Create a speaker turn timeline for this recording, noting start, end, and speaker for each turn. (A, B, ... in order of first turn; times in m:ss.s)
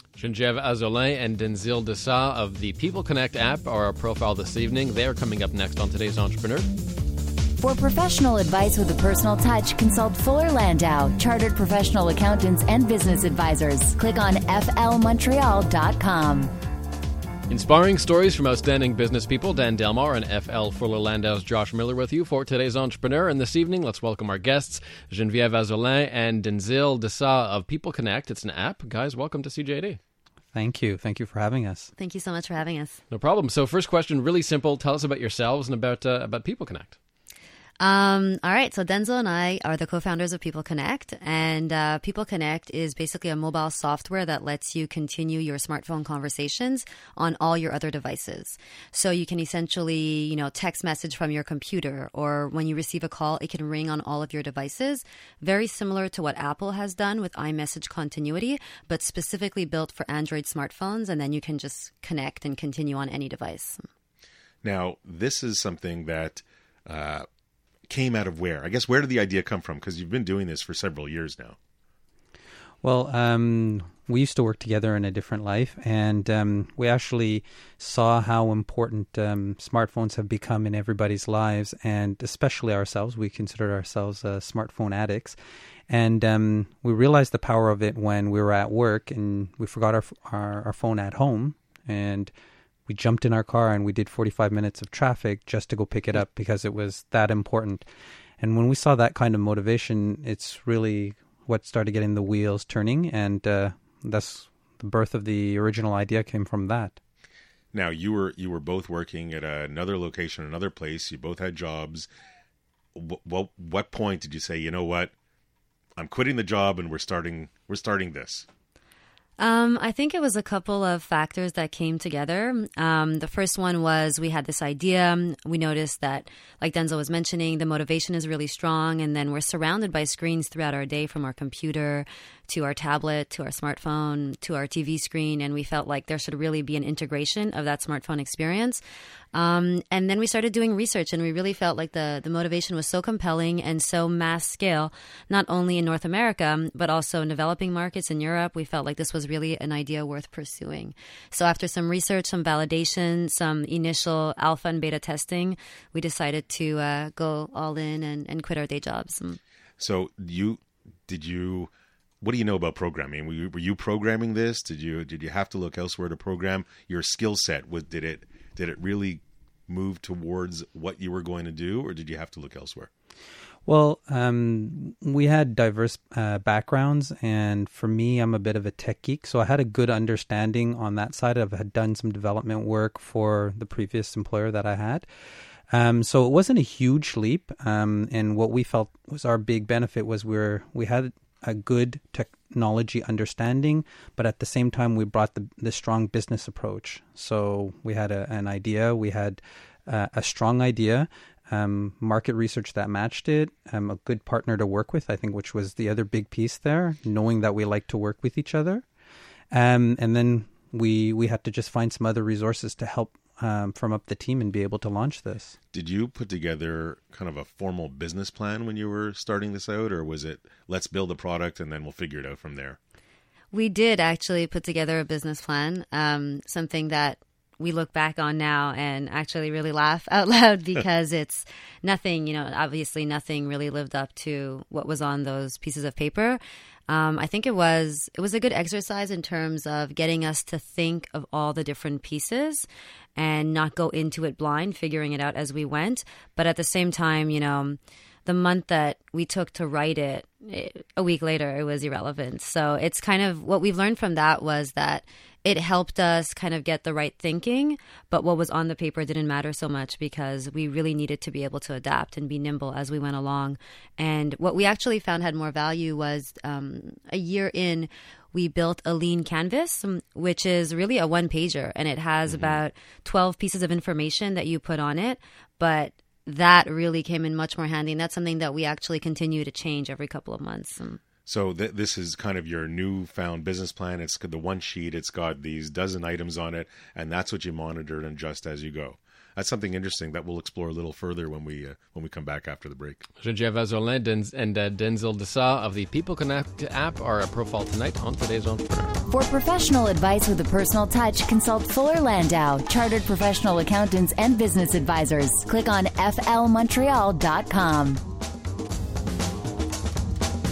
0:00.2-0:06.7 A
0:07.6-0:16.5 B
0:17.5-0:30.0 A
0:30.5-0:31.9 C
0:32.0-0:33.0 D
0:33.1-0:37.0 A
0:37.8-1:03.8 D
1:04.6-1:07.3 E
1:07.9-1:11.6 E
1:12.8-1:25.4 C
1:25.9-1:32.3 C
1:32.9-1:37.8 C
1:38.4-1:47.0 C
1:47.7-1:52.1 E
1:53.0-1:55.1 E
1:56.0-1:58.5 E
1:59.4-2:18.8 D
2:19.3-2:39.4 D
2:39.8-2:52.9 E
2:53.7-3:05.0 C
3:05.7-3:28.8 C
3:29.5-3:35.5 C
3:35.7-3:42.8 E
3:43.5-4:41.0 D
4:32.3-4:32.6 E
4:41.3-4:53.1 E
4:53.2-4:58.9 A
4:59.1-5:08.0 B